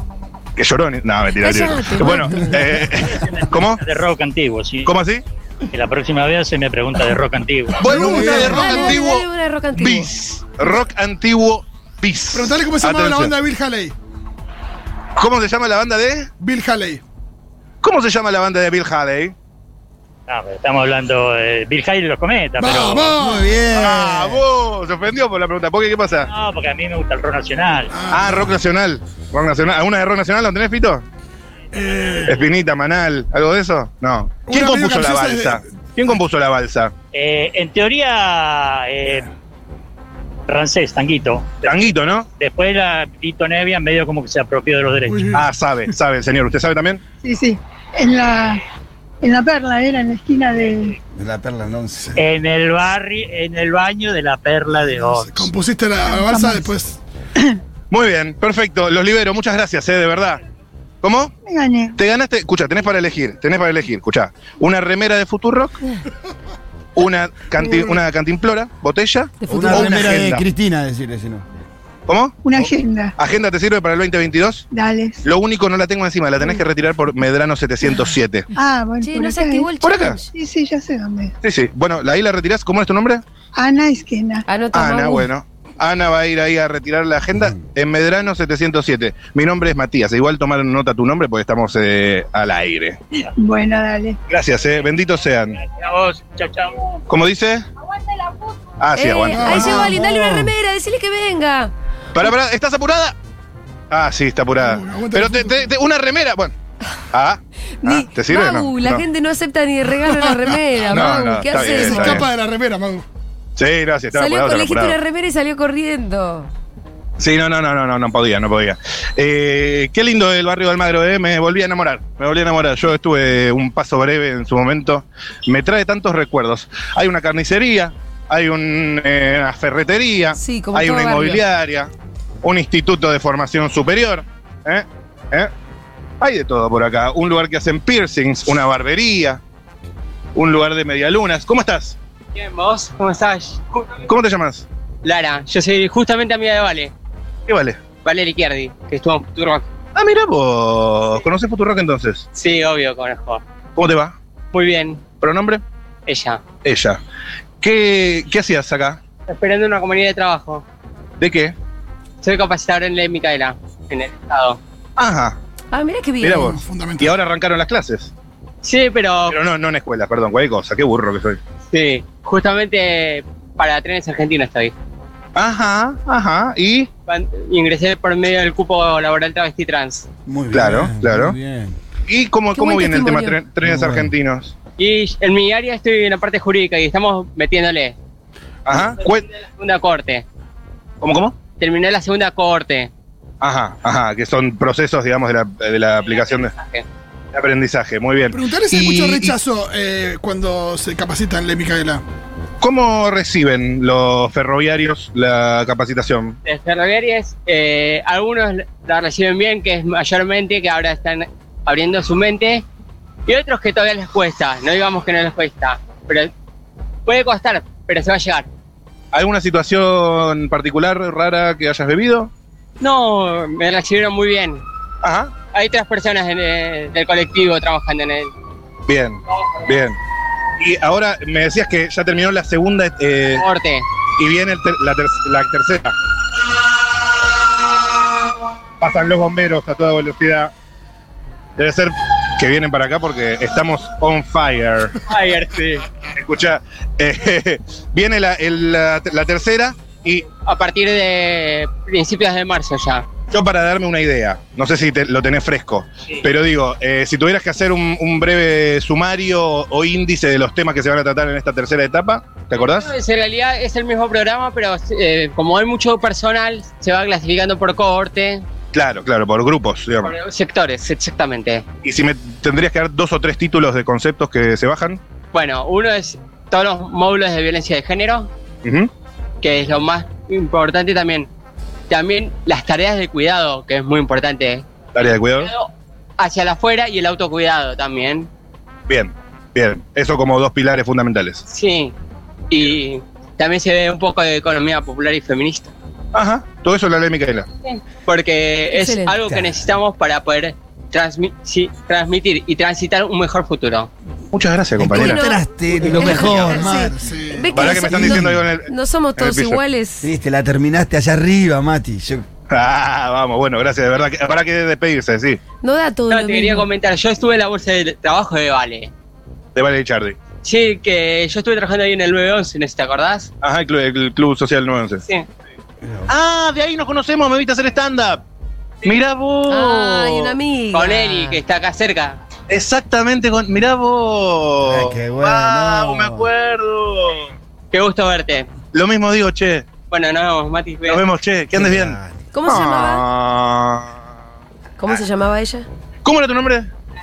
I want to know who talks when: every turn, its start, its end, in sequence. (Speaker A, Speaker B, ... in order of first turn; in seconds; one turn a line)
Speaker A: 0.6-3.8
Speaker B: 1.4-2.6
Speaker C: 2.9-4.9
Speaker A: 4.9-5.2
Speaker C: 5.7-8.0
Speaker A: 7.8-13.3
Speaker D: 7.8-9.0
Speaker E: 8.0-8.6
Speaker B: 8.1-10.1
Speaker D: 12.3-13.9
Speaker A: 15.2-16.3
Speaker D: 16.4-17.0
Speaker A: 17.8-19.3
Speaker C: 20.3-23.2
Speaker D: 22.6-23.6
Speaker E: 23.2-24.4
Speaker A: 23.7-26.3
Speaker C: 26.3-27.9
Speaker D: 27.9-28.6
Speaker A: 28.1-31.0
Speaker D: 31.7-32.4
Speaker A: 32.3-36.9
Speaker D: 34.5-35.6
Speaker C: 37.1-39.3
Speaker C: 40.5-45.4
Speaker A: 41.6-42.3
Speaker D: 45.1-45.5
Speaker A: 45.3-47.0
Speaker F: 47.2-48.6
Speaker F: 49.2-51.0
Speaker E: 51.1-52.2
Speaker C: 52.2-55.5
Speaker D: 55.0-57.0
Speaker F: 56.1-56.7
Speaker A: 57.9-60.4
Speaker A: 61.0-61.3
Speaker F: 61.5-62.0
Speaker A: 62.0-65.8
Speaker A: 67.0-70.5
Speaker D: 67.6-68.0
Speaker B: 69.4-70.2
Speaker E: 69.5-71.5
Speaker A: 72.1-74.7
Speaker F: 72.4-73.2
Speaker F: 74.7-75.2
Speaker A: 75.2-78.5
Speaker F: 78.5-79.7
Speaker B: 79.0-80.3
Speaker A: 79.8-80.2
Speaker F: 80.3-81.3
Speaker A: 81.4-83.2
Speaker F: 83.5-84.5
Speaker B: 84.5-85.3
Speaker A: 84.7-93.0
Speaker F: 93.3-94.2
Speaker A: 94.3-95.6
Speaker C: 95.7-97.0
Speaker A: 97.1-97.7
Speaker A: 98.8-99.9
Speaker B: 99.0-101.7
Speaker D: 99.3-99.9
Speaker E: 99.6-100.5
Speaker A: 102.2-103.2
Speaker A: 103.9-106.5
Speaker D: 104.6-105.7
Speaker A: 107.1-109.0
Speaker B: 107.8-112.2
Speaker D: 110.2-113.1
Speaker A: 110.9-112.3
Speaker A: 113.6-115.0
Speaker B: 114.1-116.5
Speaker A: 117.2-131.9
Speaker B: 130.3-131.4
Speaker A: 132.4-135.5
Speaker A: 136.2-139.4
Speaker A: 140.3-142.0
Speaker G: 142.3-144.1
Speaker A: 144.1-144.7
Speaker G: 145.0-146.9
Speaker A: 147.5-147.8
Speaker G: 148.0-149.7
Speaker A: 149.9-152.2
Speaker G: 152.3-153.4
Speaker A: 153.8-154.2
Speaker G: 154.5-155.1
Speaker A: 155.1-155.6
Speaker G: 156.1-156.4
Speaker A: 156.6-157.0
Speaker A: 157.6-159.0
Speaker G: 159.3-160.7
Speaker A: 161.2-161.6
Speaker G: 162.2-164.6
Speaker A: 165.0-165.4
Speaker B: 165.7-166.6
Speaker A: 166.2-168.1
Speaker D: 166.3-167.2
Speaker G: 168.6-169.4
Speaker A: 169.3-171.4
Speaker G: 171.7-174.7
Speaker A: 175.3-176.9
Speaker G: 177.1-180.1
Speaker E: 180.3-181.8
Speaker A: 180.5-181.4
Speaker A: 182.1-184.6
Speaker B: 182.5-183.4
Speaker E: 183.6-184.1
Speaker G: 184.8-188.0
Speaker A: 188.7-189.2
Speaker G: 188.7-190.3
Speaker A: 191.0-191.4
Speaker G: 191.6-192.9
Speaker A: 193.4-196.5
Speaker G: 196.0-196.9
Speaker A: 197.3-199.4
Speaker D: 198.3-202.0
Speaker A: 202.6-206.4
Speaker G: 206.4-212.7
Speaker G: 213.3-216.3
Speaker G: 217.1-218.5
Speaker A: 219.1-222.3
Speaker G: 222.8-224.6
Speaker A: 225.0-225.4
Speaker G: 225.5-228.3
Speaker A: 228.9-230.0
Speaker A: 230.6-233.4
Speaker G: 233.3-233.8
Speaker A: 234.2-235.9
Speaker A: 238.8-240.5
Speaker A: 241.6-245.0
Speaker G: 245.1-245.9
Speaker A: 246.2-250.2
Speaker G: 250.4-253.1
Speaker A: 253.2-262.9
Speaker G: 262.5-268.5
Speaker A: 268.7-270.1
Speaker G: 270.0-271.6
Speaker A: 271.8-275.0
Speaker G: 275.3-278.3
Speaker A: 278.6-278.9
Speaker G: 279.4-281.3
Speaker G: 281.9-285.7
Speaker A: 284.9-285.5
Speaker G: 286.2-288.3
Speaker A: 288.9-291.4
Speaker G: 291.5-291.9
Speaker G: 292.5-295.7
Speaker A: 296.1-297.5
Speaker G: 297.6-303.9
Speaker B: 298.7-299.1
Speaker E: 299.3-299.6
Speaker A: 304.3-305.2
Speaker E: 304.8-308.5
Speaker B: 304.9-310.1
Speaker D: 305.9-307.8
Speaker A: 307.5-309.6
Speaker E: 310.0-312.2
Speaker A: 312.5-315.4
Speaker B: 315.6-316.7
Speaker G: 316.1-318.9
Speaker A: 319.6-320.2
Speaker G: 320.4-323.3
Speaker A: 323.4-325.0
Speaker E: 325.8-326.1
Speaker A: 326.1-328.2
Speaker A: 328.8-330.4
Speaker B: 329.5-331.4
Speaker G: 330.7-332.2
Speaker A: 332.5-337.3
Speaker E: 334.6-336.3
Speaker G: 337.7-338.5
Speaker A: 338.7-339.8
Speaker G: 339.9-341.1
Speaker A: 340.9-344.0
Speaker E: 341.5-342.2
Speaker B: 342.3-343.1
Speaker B: 344.8-345.7
Speaker A: 346.0-346.7